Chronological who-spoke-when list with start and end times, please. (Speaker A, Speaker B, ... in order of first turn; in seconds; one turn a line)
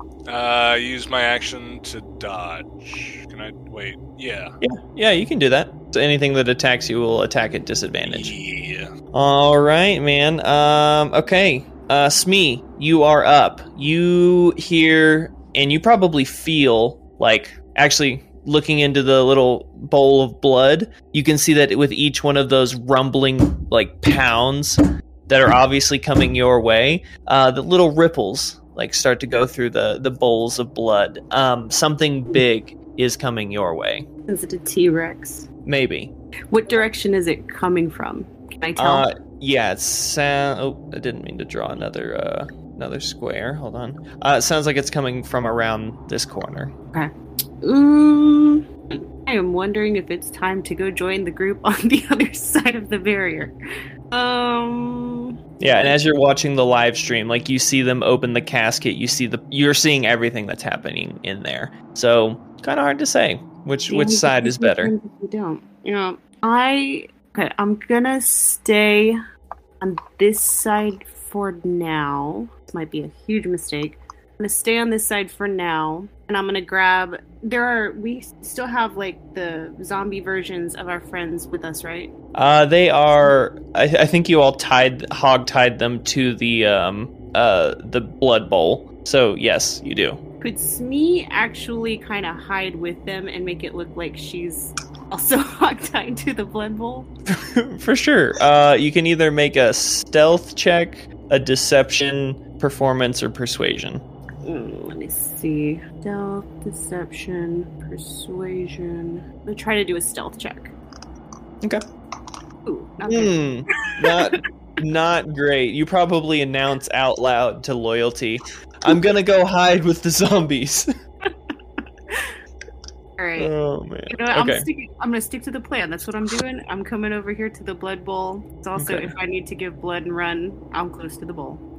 Speaker A: 0.3-4.5
Speaker B: 4.6-8.3
Speaker A: 8.1-8.9
Speaker B: 9.1-34.1
Speaker C: 34.3-35.5
Speaker B: 35.6-36.1
Speaker C: 36.5-39.1
Speaker B: 38.8-46.7
Speaker C: 46.9-53.5
Speaker C: 54.1-55.9
Speaker B: 55.6-64.9
Speaker C: 63.9-69.2
Speaker C: 69.8-82.1
Speaker B: 82.3-90.2
Speaker C: 90.4-97.1
Speaker B: 97.3-104.0
Speaker C: 104.4-110.7
Speaker C: 112.7-114.4
Speaker B: 113.1-120.9
Speaker C: 123.2-123.5
Speaker B: 123.3-124.7
Speaker C: 124.1-131.6
Speaker B: 128.8-129.1